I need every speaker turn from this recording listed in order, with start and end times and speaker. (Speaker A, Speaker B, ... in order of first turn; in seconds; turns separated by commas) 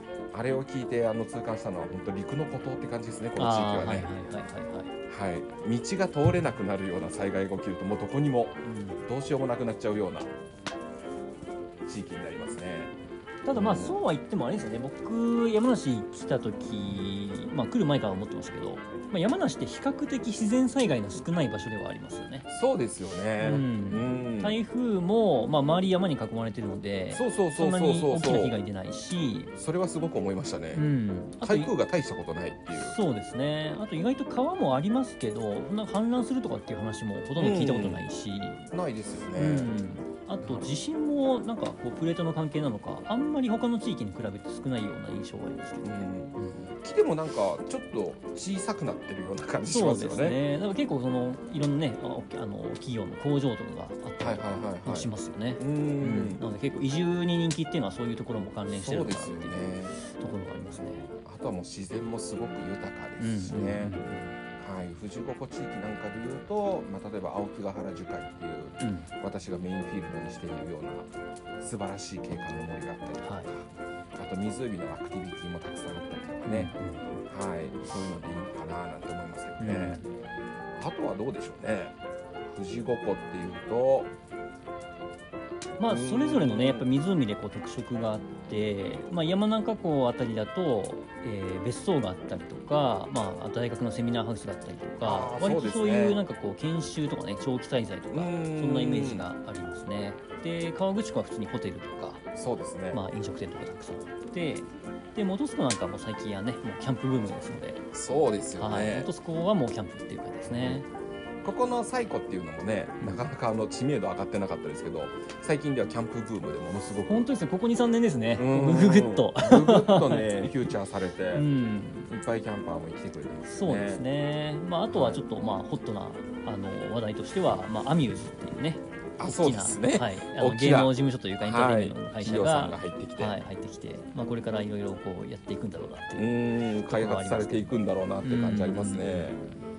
Speaker A: 0.3-4.1, Speaker B: 3.4-4.9, Speaker A: 5.1-10.3, Speaker B: 8.7-9.0, Speaker A: 11.9-12.9, Speaker B: 13.4-22.5, Speaker A: 13.5-14.0, Speaker A: 22.5-24.6, Speaker B: 23.4-29.5, Speaker A: 27.1-28.6, Speaker A: 29.6-30.9, Speaker B: 30.7-31.7, Speaker A: 31.4-33.0, Speaker B: 32.8-38.7, Speaker A: 37.4-38.0, Speaker A: 38.7-39.8, Speaker B: 39.4-46.7, Speaker A: 40.4-40.7, Speaker A: 45.8-50.4, Speaker B: 49.7-61.1, Speaker A: 54.2-56.4, Speaker A: 58.7-60.0, Speaker A: 61.2-64.0, Speaker B: 63.2-64.3, Speaker A: 64.6-76.7, Speaker B: 68.8-69.1, Speaker B: 73.2-73.5, Speaker B: 76.5-77.0, Speaker A: 77.3-80.0, Speaker B: 79.6-80.0, Speaker A: 80.8-82.0, Speaker A: 82.5-84.1, Speaker B: 85.8-102.2, Speaker A: 85.9-86.9, Speaker A: 95.0-96.2, Speaker A: 98.1-99.3, Speaker A: 102.3-103.0, Speaker B: 102.9-107.8, Speaker A: 107.9-109.1, Speaker B: 108.6-110.9, Speaker A: 110.5-110.8, Speaker A: 111.4-117.3, Speaker B: 113.0-113.3, Speaker B: 117.1-120.7, Speaker A: 118.4-121.5, Speaker B: 121.3-122.1, Speaker A: 122.1-124.0, Speaker B: 123.5-139.4, Speaker A: 124.9-125.2, Speaker A: 129.2-133.4, Speaker A: 136.2-139.4